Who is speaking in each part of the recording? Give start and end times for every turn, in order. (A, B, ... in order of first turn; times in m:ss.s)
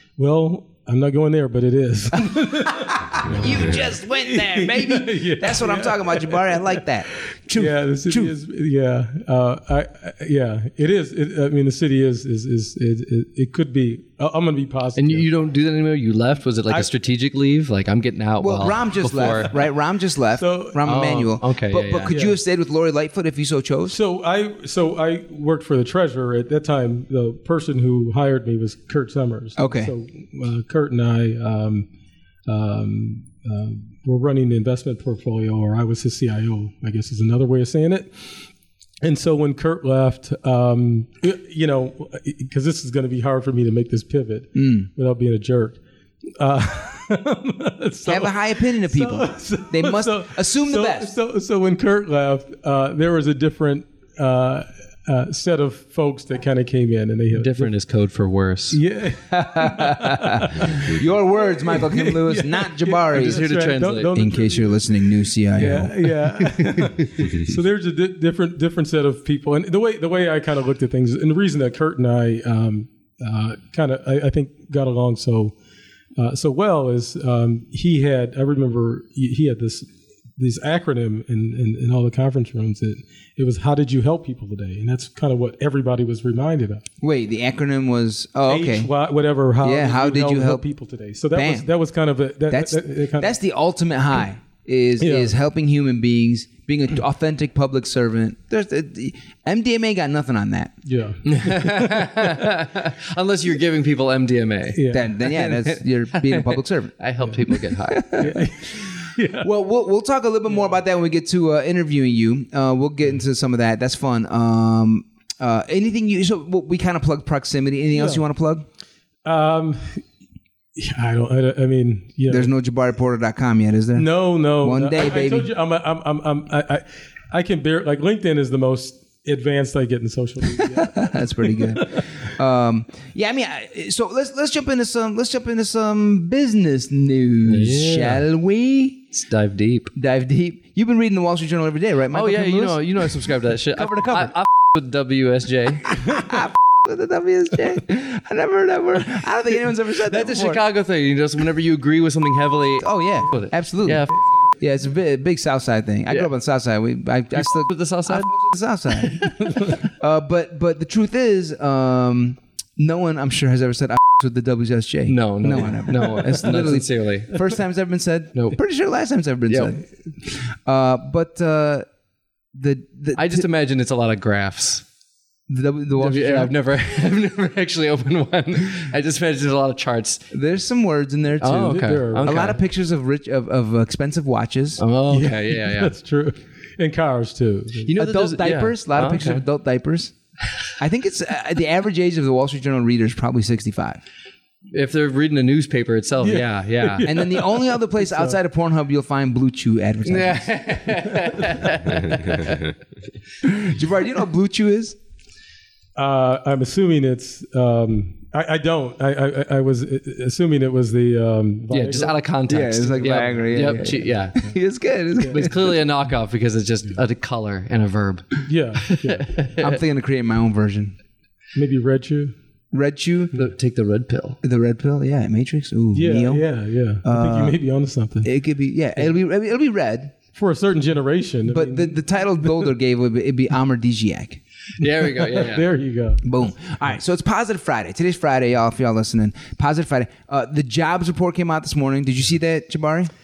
0:00.2-0:06.8 A
0:02.2-0:08.3 B
0:07.5-0:15.3 A
0:15.0-0:19.5 C
0:18.4-0:24.0 B
0:20.4-0:20.9 A
0:20.8-0:22.1 C
0:22.1-0:22.4 A
0:23.9-0:31.9 A
0:29.6-0:29.9 B
0:32.5-0:38.3 A
0:39.0-0:45.8 A
0:44.6-0:44.9 B
0:46.4-0:57.7 A
0:48.0-0:51.2 B
0:57.3-0:58.8 C
0:58.7-1:04.9 A
0:59.3-1:03.5 B
1:03.1-1:04.1 C
1:04.1-1:06.1 B
1:05.6-1:15.5 A
1:16.2-1:19.9 A
1:20.4-1:26.8 A
1:27.0-1:28.9 B
1:28.5-1:33.3 A
1:29.6-1:30.6 B
1:31.3-1:31.7 B
1:32.5-1:40.7 B
1:35.0-1:35.3 A
1:40.8-1:42.4 A
1:41.2-1:48.3 C
1:44.8-1:45.1 A
1:44.9-1:47.0 B
1:47.5-1:48.9 B
1:48.2-1:49.5 A
1:49.4-1:58.6 B
1:58.0-1:58.2 A
1:59.2-2:00.0 A
2:00.8-2:02.5 A
2:02.3-2:04.1 B
2:04.0-2:12.0 A
2:04.6-2:05.5 B
2:10.6-2:19.1 B
2:17.5-2:18.2 C
2:19.1-2:19.9 C
2:20.0-2:24.4 B
2:22.1-2:26.0 C
2:25.9-2:30.6 B
2:30.0-2:34.2 C
2:32.8-2:34.1 B
2:34.6-2:51.9 B
2:37.4-2:38.3 C
2:39.0-2:39.6 C
2:45.1-2:47.4 C
2:52.5-2:53.5 B
2:53.2-2:54.8 C
2:55.5-2:56.5 B
2:56.0-3:00.3 C
3:00.3-3:04.8 B
3:01.4-3:02.6 C
3:01.6-3:02.5 A
3:04.8-3:05.9 C
3:05.1-3:07.9 A
3:07.9-3:09.4 C
3:08.0-3:10.1 B
3:10.8-3:14.0 B
3:14.7-3:17.1 C
3:16.2-3:18.4 A
3:17.0-3:20.9 B
3:20.1-3:22.6 C
3:23.4-3:25.0 B
3:26.0-3:32.2 A
3:31.7-3:34.5 C
3:32.5-3:35.8 B
3:35.2-3:38.3 C
3:38.4-3:39.3 A
3:38.9-3:39.8 C
3:39.6-3:41.0 B
3:41.6-3:42.4 A
3:42.7-3:43.4 B
3:43.4-3:44.4 C
3:44.4-3:46.4 B
3:45.9-3:48.3 A
3:47.0-3:47.6 B
3:48.2-3:50.2 B
3:50.3-3:52.7 A
3:51.5-3:54.4 B
3:54.8-3:55.6 C
3:55.0-3:56.5 A
3:56.2-4:03.1 B